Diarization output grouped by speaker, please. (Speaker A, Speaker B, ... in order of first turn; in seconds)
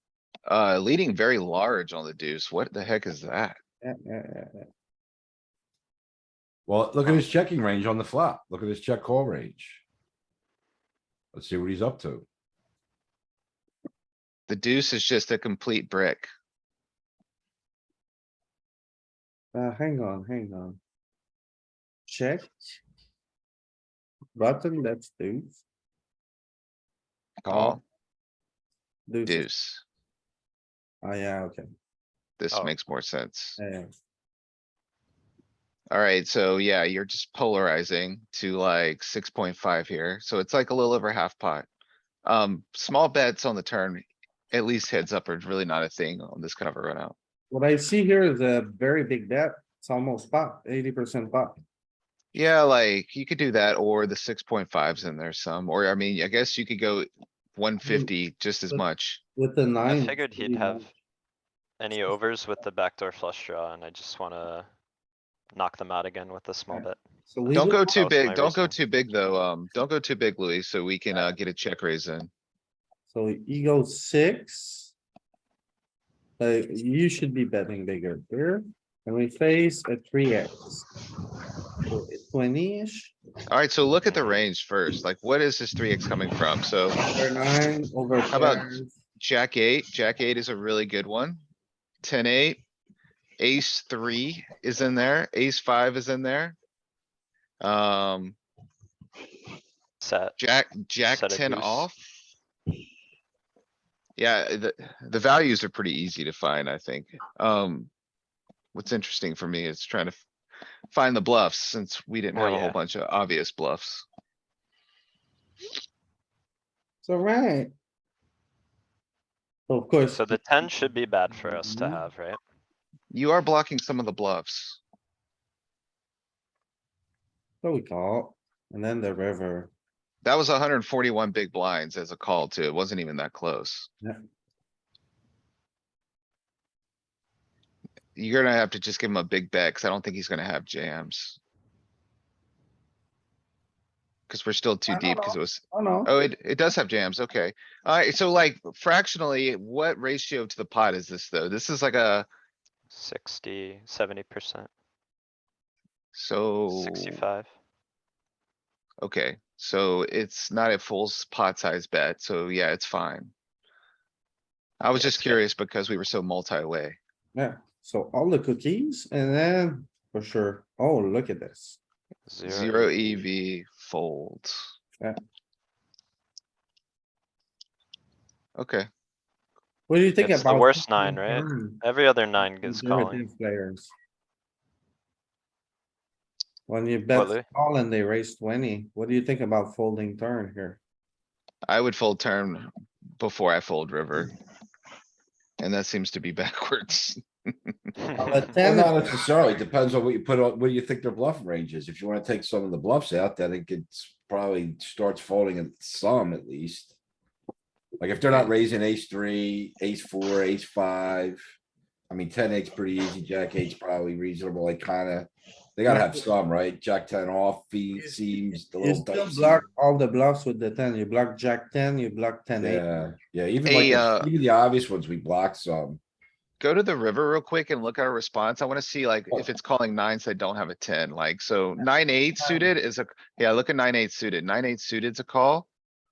Speaker A: 0.5-3.6, 14.5-16.3, 27.4-27.8, 29.2-29.8, 32.4-33.6, 35.9-41.7, 42.2-47.1, 52.3-59.2, 67.5-72.3, 83.5-87.0, 88.3-91.4, 92.0-92.6, 93.4-96.6, 97.6-98.4, 100.4-102.0, 104.2-107.9, 108.7-110.2, 110.9-114.1, 123.1-124.8, 130.2-133.9, 138.2-141.4, 144.3-152.3, 156.1-157.2, 159.0-163.3, 164.8-167.0, 172.5-174.7, 178.6-178.9, 191.7-194.3, 195.6-197.7, 223.7-224.3, 226.6-235.7
Speaker B: 3.8-4.7, 19.5-20.8, 22.1-22.5, 24.3-25.6, 29.1-29.5, 31.0-31.6, 33.6-33.9, 47.5-51.6, 57.8-58.1, 59.3-60.9, 66.7-67.9, 73.1-74.9, 76.4-80.9, 81.9-83.1, 87.1-88.9, 117.0-117.7, 119.7-120.2, 121.5-122.0, 127.6-129.7, 144.9-146.3, 167.3-171.8, 179.9-181.8, 182.5-183.9, 186.7-190.8, 198.2-199.2, 215.9-216.2, 218.8-222.8, 232.4-232.7
Speaker C: 6.7-9.8, 11.3-12.2, 27.4-27.8, 198.6-206.9, 208.0-211.4, 212.1-219.6, 222.6-226.0
Speaker D: 59.8-60.9, 61.8-64.7, 65.5-68.8, 100.0-100.4, 101.0-101.9, 112.3-112.8, 120.1-122.4, 152.9-154.7, 156.7-157.5, 164.9-165.4, 172.3-173.2, 180.2-183.3, 187.1-187.4